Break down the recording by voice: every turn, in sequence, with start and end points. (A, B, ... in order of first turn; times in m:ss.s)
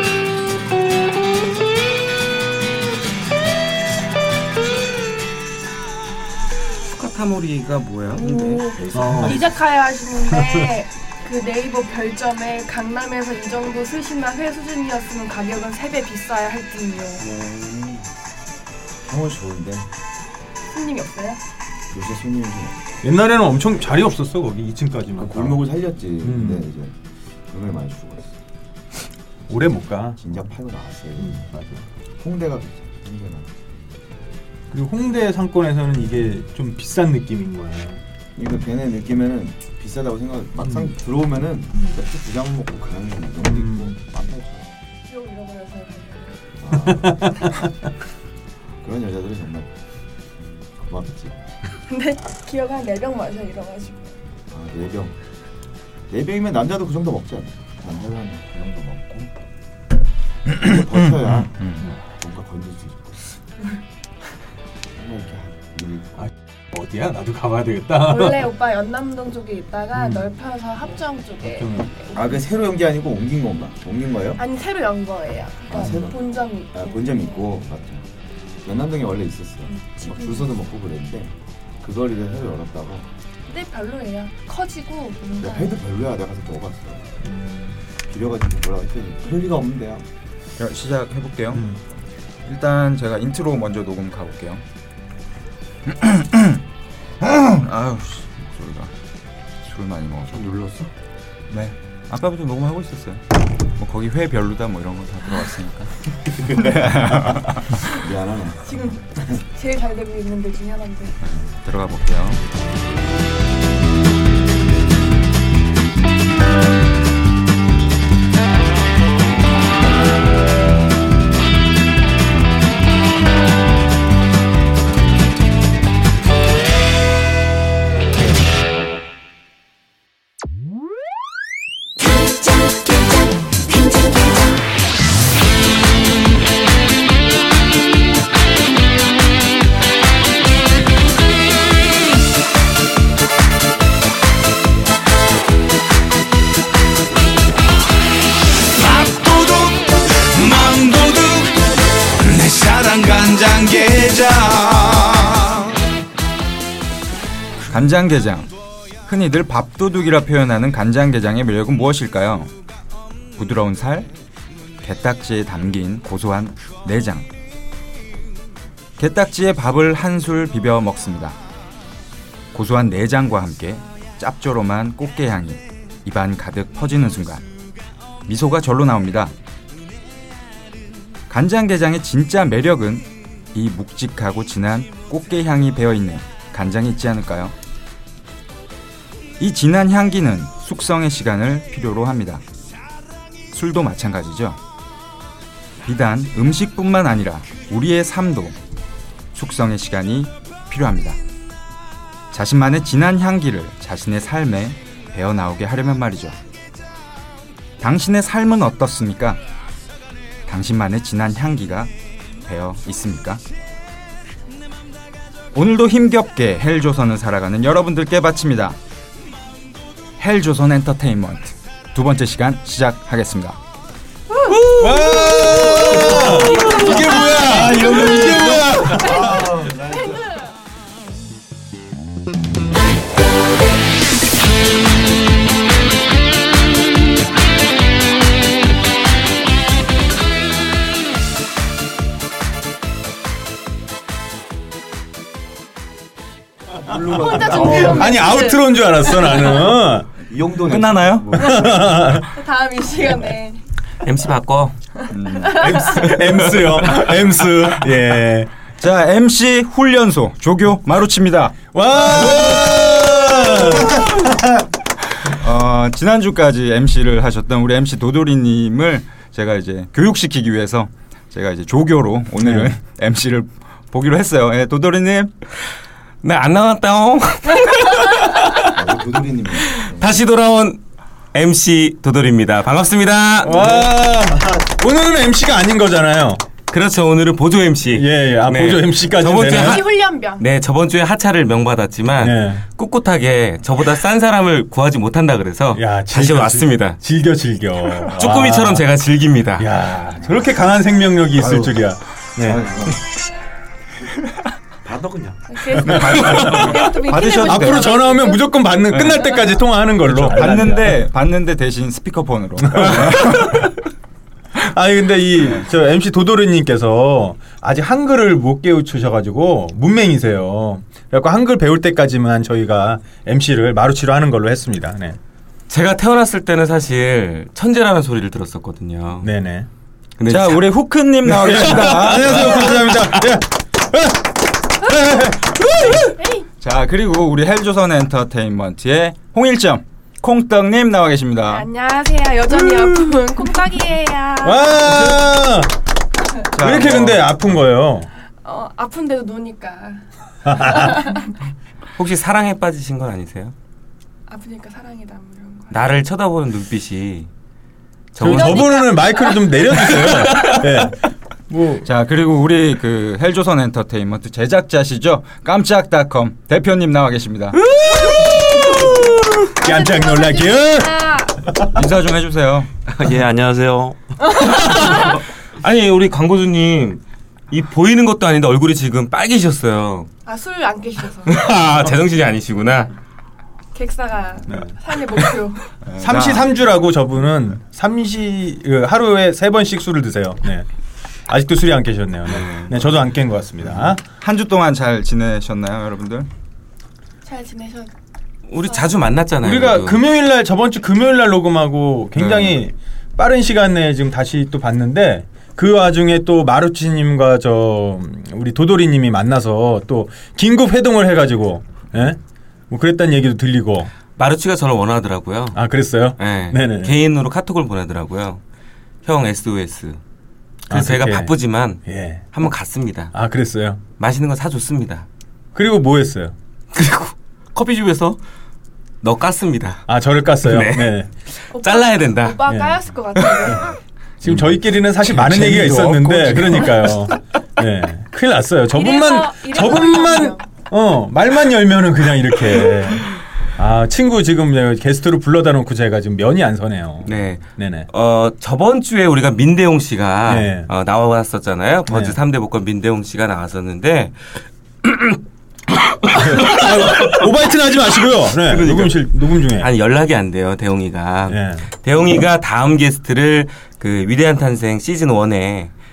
0:06.8-0:09.3 A
0:08.2-0:17.2 B
0:09.0-0:09.4 C
0:10.4-0:10.7 C
0:17.3-0:18.0 D
0:19.0-0:19.9 D
0:20.7-0:21.4 B
0:21.9-0:22.9 D
0:23.0-0:25.7 C
0:25.2-0:27.0 D
0:26.2-0:26.7 C
0:27.5-0:28.4 D
0:29.5-0:30.2 C
0:30.2-0:31.5 D
0:31.2-0:31.8 C
0:32.2-0:33.5 D
0:34.7-0:38.0 C
0:38.4-0:44.8 D
0:43.4-0:44.0 C
0:45.1-0:46.4 B
0:46.6-0:47.5 D
0:47.0-0:47.7 C
0:48.8-0:49.7 D
0:50.8-0:51.4 D
0:51.9-0:54.2 B
0:54.5-0:55.2 D
0:56.1-0:59.3 D
1:00.6-1:03.2 D
1:05.0-1:06.3 D
1:06.2-1:08.4 C
1:08.0-1:12.4 B
1:10.0-1:10.3 C
1:11.4-1:11.9 C
1:12.1-1:14.4 D
1:14.4-1:17.4 B
1:15.7-1:18.0 D
1:18.6-1:23.1 D
1:19.7-1:20.5 B
1:23.5-1:25.8 B
1:25.4-1:27.0 D
1:27.2-1:27.8 C
1:28.1-1:30.1 D
1:30.6-1:31.6 E
1:32.4-1:34.6 E
1:35.9-1:36.6 E
1:37.2-1:38.9 E
1:39.6-1:40.6 E
1:40.3-1:40.9 F
1:41.5-1:43.2 E
1:43.8-1:47.8 E
1:47.9-1:48.9 D
1:48.6-1:51.2 B
1:51.2-1:52.4 E
2:28.9-2:31.5 G
2:32.3-2:35.3 G
2:37.7-2:38.5 E
2:39.0-2:42.5 E
2:43.4-2:44.1 E
2:44.8-2:47.3 E
2:49.0-2:51.4 E
2:52.5-2:57.4 E
2:58.2-2:59.3 E
3:01.3-3:07.5 E
3:09.4-3:12.4 E
3:13.5-3:14.6 E
3:15.8-3:18.5 E
3:19.3-3:21.2 E
3:22.3-3:26.4 E
3:27.8-3:29.4 E
3:30.4-3:31.9 E
3:32.4-3:33.4 E
3:35.5-3:38.8 E
3:40.2-3:43.6 E
3:44.4-3:46.9 A
3:44.8-3:49.5 C
3:46.4-3:47.0 B
3:47.4-3:48.3 E
3:47.6-3:48.0 B
3:48.0-3:48.5 A
3:48.8-3:50.3 D
4:06.8-4:08.3 D
4:07.2-4:09.8 B
4:07.6-4:10.1 C
4:10.3-4:12.0 D
4:10.7-4:11.3 E
4:11.3-4:12.3 C
4:12.2-4:13.6 B
4:14.0-4:14.8 A
4:15.1-4:16.1 B
4:15.1-4:16.5 E
4:15.5-4:18.5 C
4:16.2-4:17.0 A
4:18.8-4:21.6 E
4:21.7-4:24.6 C
4:25.2-4:35.3 E
4:32.4-4:32.7 C
4:36.2-4:38.8 A
4:38.7-4:40.2 D
4:39.7-4:40.8 A
4:41.3-4:43.8 A
4:43.4-4:46.4 C
4:46.7-4:57.0 A
4:47.9-4:49.8 C
4:49.5-4:50.4 B
4:52.2-4:52.6 C
4:55.8-4:58.9 C
4:58.1-4:59.7 A
4:59.6-5:02.8 C
5:02.4-5:03.0 D
5:04.8-5:05.8 F
5:05.5-5:08.6 B
5:05.7-5:08.0 E
5:05.9-5:06.7 C
5:07.4-5:10.9 C
5:08.9-5:09.3 E
5:10.0-5:13.6 E
5:12.6-5:13.7 C
5:14.6-5:25.2 C
5:25.7-5:29.3 A
5:29.2-5:29.7 C
5:30.2-5:30.6 A
5:30.3-5:32.8 E
5:31.2-5:36.1 C
5:35.8-5:36.5 B
5:36.6-5:41.7 E
5:41.5-5:45.1 B
5:44.4-5:45.8 C
5:46.5-5:47.3 E
5:46.5-5:48.1 C
5:48.4-5:51.3 B
5:50.5-5:51.0 C
5:52.0-5:53.5 A
5:54.3-5:55.8 B
5:55.7-5:57.3 A
5:58.1-6:00.9 A
5:58.2-6:01.8 C
5:58.2-5:59.5 B
6:01.8-6:07.6 E
6:07.7-6:09.2 A
6:08.0-6:11.7 C
6:09.6-6:11.4 B
6:11.7-6:12.7 E
6:12.9-6:14.0 F
6:14.4-6:15.2 B
6:14.4-6:20.1 A
6:20.2-6:21.4 B
6:21.3-6:22.9 A
6:23.7-6:25.7 B
6:25.8-6:26.5 E
6:26.0-6:30.7 C
6:31.3-6:34.0 C
6:33.6-6:36.3 E
6:37.2-6:37.9 B
6:38.5-6:40.0 A
6:39.4-6:52.2 C
6:42.2-6:42.6 E
6:52.7-6:53.9 C
6:54.2-6:55.6 A
6:55.5-6:56.9 C
6:56.2-6:58.4 A
6:59.0-7:00.0 A
7:00.7-7:03.1 A
7:00.7-7:01.3 C
7:01.9-7:02.2 C
7:03.1-7:03.8 C
7:04.0-7:05.1 A
7:05.6-7:06.3 C
7:06.7-7:08.2 A
7:09.0-7:09.8 A
7:09.9-7:11.1 C
7:10.4-7:12.4 A
7:11.5-7:13.7 B
7:12.5-7:12.8 C
7:13.2-7:13.6 A
7:14.2-7:27.9 C
7:15.1-7:17.1 A
7:18.7-7:20.5 B
7:27.0-7:34.3 A
7:30.2-7:30.7 C
7:31.9-7:32.2 C
7:34.8-7:35.2 A
7:36.0-7:37.2 A
7:36.1-7:39.7 C
7:38.4-7:45.7 A
7:41.3-7:41.6 C